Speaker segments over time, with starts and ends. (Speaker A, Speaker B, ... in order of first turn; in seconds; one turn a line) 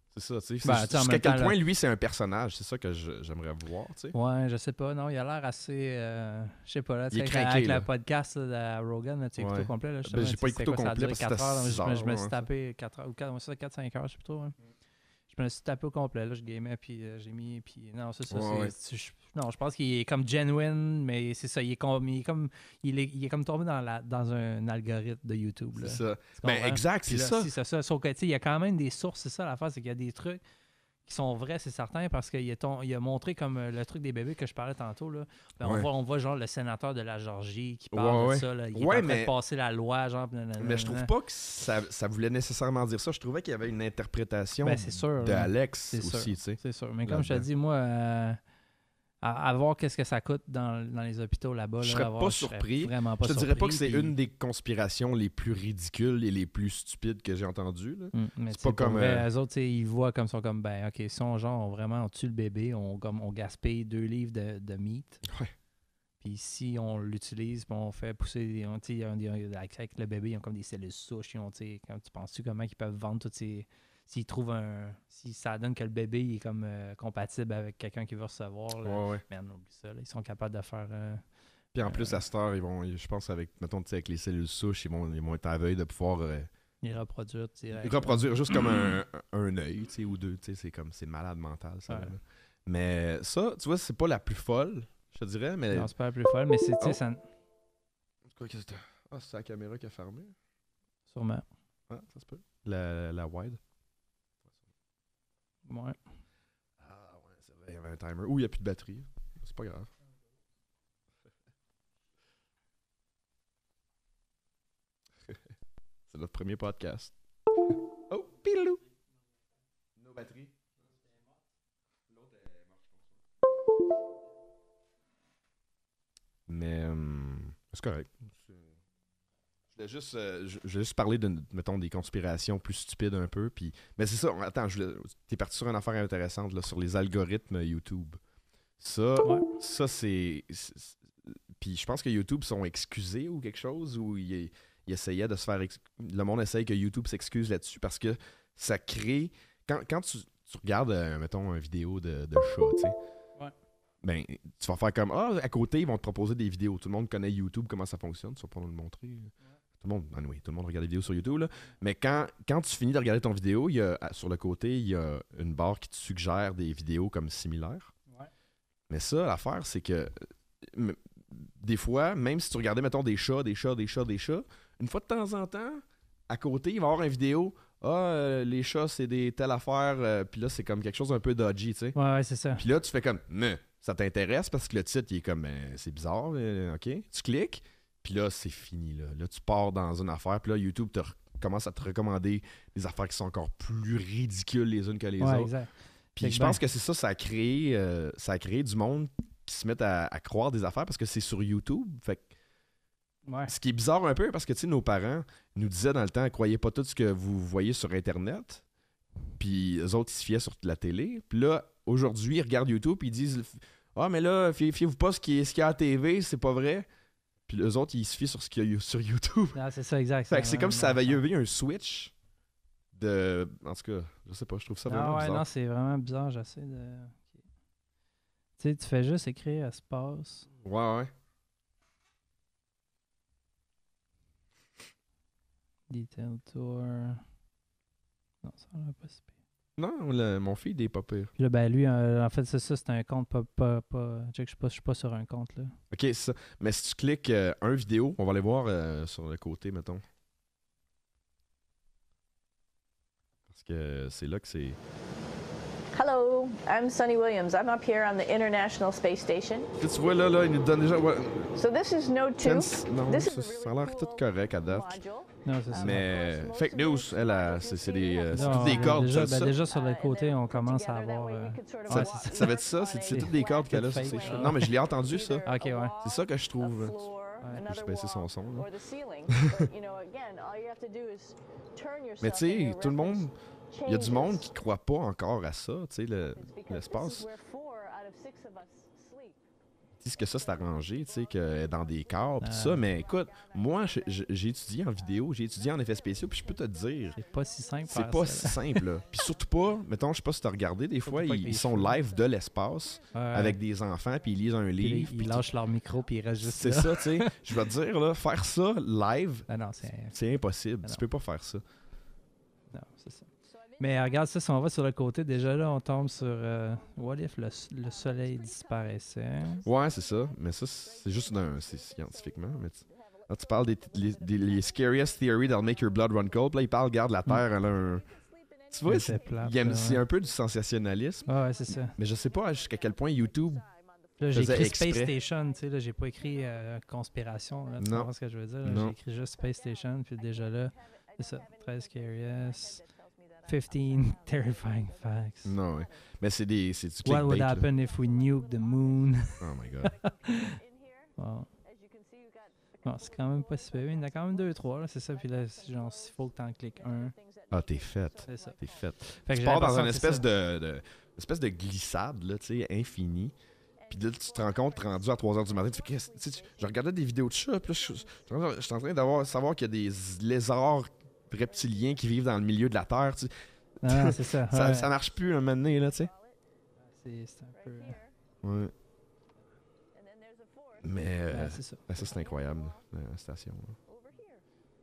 Speaker A: 0.1-4.1
Speaker B: 0.6-1.6
Speaker B: 4.1-14.6
Speaker A: 7.1-7.8
Speaker A: 9.4-12.4
Speaker B: 15.3-30.4
Speaker A: 18.3-18.7
Speaker A: 25.8-27.5
Speaker B: 31.1-41.1
Speaker A: 35.6-35.9
Speaker A: 37.9-39.3
Speaker A: 40.6-47.5
Speaker B: 44.6-48.4
Speaker B: 49.2-54.1
Speaker A: 51.8-59.3
Speaker B: 58.1-65.2
Speaker A: 65.3-65.5
Speaker B: 66.2-81.2
Speaker A: 78.8-79.2
Speaker A: 81.7-86.5
Speaker B: 81.8-82.2
Speaker B: 86.8-88.9
Speaker A: 87.7-95.9
Speaker B: 91.9-92.1
Speaker B: 95.7-97.2
Speaker A: 98.3-100.3
Speaker B: 101.1-101.5
Speaker A: 101.9-103.6
Speaker B: 105.7-106.0
Speaker A: 106.8-109.9
Speaker A: 116.1-118.8
Speaker A: 120.0-120.7
Speaker A: 122.2-123.0
Speaker A: 126.5-128.7
Speaker A: 129.7-138.2
Speaker A: 138.8-152.9
Speaker B: 139.2-139.5
Speaker A: 154.0-167.9
Speaker A: 168.9-181.9
Speaker B: 181.9-182.6
Speaker A: 182.6-195.5
Speaker B: 195.2-196.6
Speaker A: 196.2-202.3
Speaker B: 203.2-203.5
Speaker A: 203.5-208.6
Speaker A: 209.4-216.8
Speaker A: 217.5-219.6
Speaker B: 219.5-221.2
Speaker A: 220.3-222.1
Speaker A: 222.9-225.4
Speaker B: 224.9-227.4
Speaker B: 228.6-230.5
Speaker A: 230.6-231.1
Speaker B: 235.9-237.2
Speaker B: 238.4-239.3
Speaker A: 239.8-241.3
Speaker B: 241.3-245.8
Speaker A: 245.9-250.0
Speaker A: 253.5-254.8
Speaker C: 255.9-259.7
Speaker A: 259.8-261.5
Speaker C: 261.5-284.5
Speaker A: 262.4-265.0
Speaker B: 265.4-266.1
Speaker A: 265.7-269.5
Speaker B: 268.3-274.7
Speaker A: 271.9-275.4
Speaker B: 275.4-275.9
Speaker A: 276.0-277.0
Speaker A: 277.5-278.7
Speaker A: 279.4-279.6
Speaker A: 282.2-287.3
Speaker C: 286.3-289.4
Speaker A: 290.0-297.2
Speaker C: 290.1-307.4
Speaker B: 292.4-292.8
Speaker B: 297.1-298.8
Speaker A: 297.9-305.4
Speaker B: 301.0-301.9
Speaker B: 303.1-303.6
Speaker B: 304.8-307.5
Speaker A: 306.4-309.5
Speaker B: 309.5-310.1
Speaker A: 310.0-311.6
Speaker B: 312.7-319.6
Speaker C: 313.4-338.1
Speaker A: 319.6-328.0
Speaker A: 328.7-333.6
Speaker B: 328.8-330.0
Speaker B: 331.2-331.9
Speaker B: 334.2-342.8
Speaker A: 334.3-335.1
Speaker A: 337.8-338.1
Speaker A: 338.6-338.9
Speaker C: 338.8-346.2
Speaker B: 343.4-345.5
Speaker A: 345.4-347.7
Speaker B: 347.0-349.5
Speaker C: 347.6-360.5
Speaker A: 349.4-350.0
Speaker B: 351.2-351.5
Speaker B: 352.8-357.1
Speaker A: 357.5-363.3
Speaker B: 358.3-360.3
Speaker C: 363.8-370.0
Speaker A: 363.9-376.1
Speaker C: 371.4-372.5
Speaker B: 373.8-374.9
Speaker C: 374.8-376.4
Speaker B: 376.8-378.0
Speaker C: 377.5-378.1
Speaker A: 378.4-378.7
Speaker C: 379.9-383.0
Speaker A: 380.8-383.8
Speaker B: 381.3-381.8
Speaker C: 383.7-384.4